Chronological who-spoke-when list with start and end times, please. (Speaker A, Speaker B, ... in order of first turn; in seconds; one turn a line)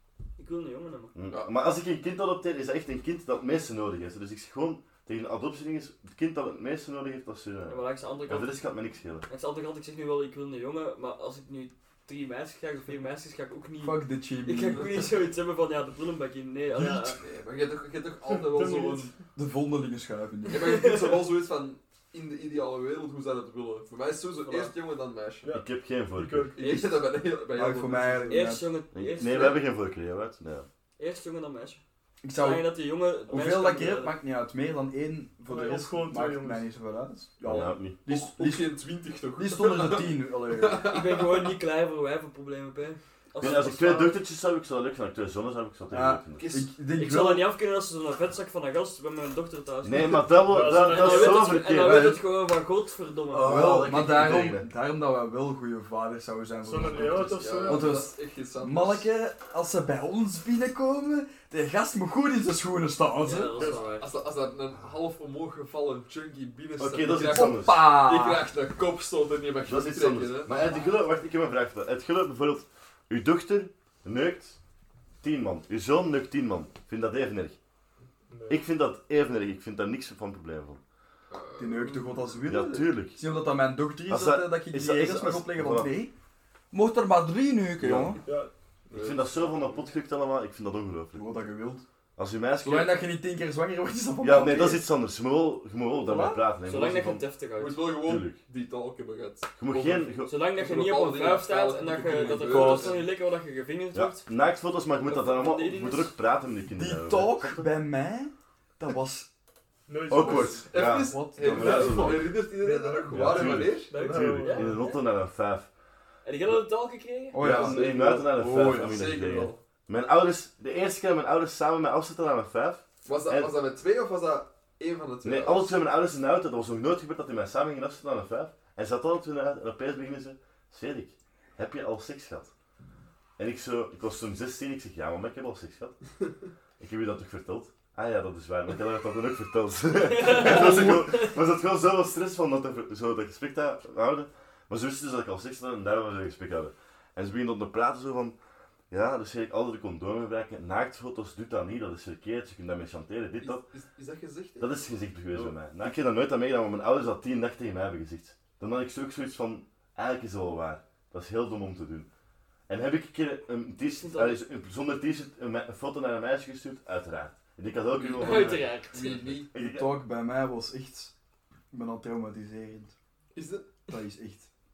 Speaker A: 0.4-1.1
Speaker B: 1.1-9.2
Speaker A: 7.7-17.2
Speaker C: 13.8-15.0
Speaker D: 14.7-15.1
Speaker D: 16.9-19.1
Speaker E: 18.3-19.1
Speaker C: 19.4-20.7
Speaker D: 20.4-25.5
Speaker A: 20.5-21.1
Speaker A: 24.4-24.7
Speaker E: 25.4-26.6
Speaker B: 25.5-26.5
Speaker D: 26.6-28.5
Speaker A: 26.6-27.1
Speaker C: 27.5-28.7
Speaker A: 28.3-29.6
Speaker B: 28.9-30.7
Speaker A: 31.0-34.1
Speaker C: 32.2-38.8
Speaker E: 35.5-36.7
Speaker B: 37.4-38.0
Speaker D: 37.9-41.2
Speaker C: 39.3-40.8
Speaker A: 40.9-44.1
Speaker B: 43.4-46.5
Speaker C: 45.9-47.5
Speaker D: 46.3-46.7
Speaker A: 46.9-53.8
Speaker B: 49.8-52.2
Speaker E: 50.5-51.5
Speaker C: 51.6-52.2
Speaker B: 53.3-54.7
Speaker C: 53.3-63.7
Speaker E: 56.6-58.0
Speaker D: 57.3-59.1
Speaker A: 63.2-64.0
Speaker D: 63.5-70.7
Speaker B: 66.8-67.8
Speaker C: 67.2-68.5
Speaker B: 69.7-74.6
Speaker B: 75.2-77.6
Speaker E: 78.3-78.6
Speaker B: 78.5-80.8
Speaker D: 81.3-82.8
Speaker C: 81.6-86.1
Speaker B: 82.4-83.2
Speaker B: 84.1-85.9
Speaker C: 86.7-88.2
Speaker B: 87.8-88.2
Speaker E: 88.2-88.5
Speaker D: 88.9-89.9
Speaker B: 88.9-91.3
Speaker C: 91.1-91.8
Speaker B: 92.2-93.0
Speaker C: 92.6-94.8
Speaker B: 94.2-97.2
Speaker A: 96.0-97.8
Speaker D: 97.6-103.0
Speaker B: 98.0-98.4
Speaker B: 99.6-100.3
Speaker A: 100.3-104.3
Speaker C: 102.5-103.0
Speaker B: 103.9-107.7
Speaker A: 105.0-106.1
Speaker C: 106.7-109.3
Speaker E: 109.9-110.7
Speaker B: 110.1-112.4
Speaker D: 110.2-113.9
Speaker C: 111.1-112.2
Speaker A: 111.6-111.9
Speaker E: 112.5-114.8
Speaker B: 113.1-115.7
Speaker A: 113.9-115.0
Speaker A: 116.2-117.4
Speaker C: 117.3-118.6
Speaker B: 117.3-123.5
Speaker D: 117.4-119.6
Speaker D: 123.0-125.7
Speaker B: 125.2-132.5
Speaker B: 133.4-136.2
Speaker B: 136.8-148.4
Speaker A: 140.1-141.3
Speaker D: 140.2-141.2
Speaker B: 148.9-153.6
Speaker D: 153.4-155.5
Speaker B: 154.6-162.1
Speaker B: 162.7-169.9
Speaker A: 164.0-164.4
Speaker D: 167.9-169.5
Speaker A: 168.2-169.1
Speaker C: 169.5-171.1
Speaker C: 171.7-172.9
Speaker D: 173.3-173.7
Speaker C: 173.9-174.5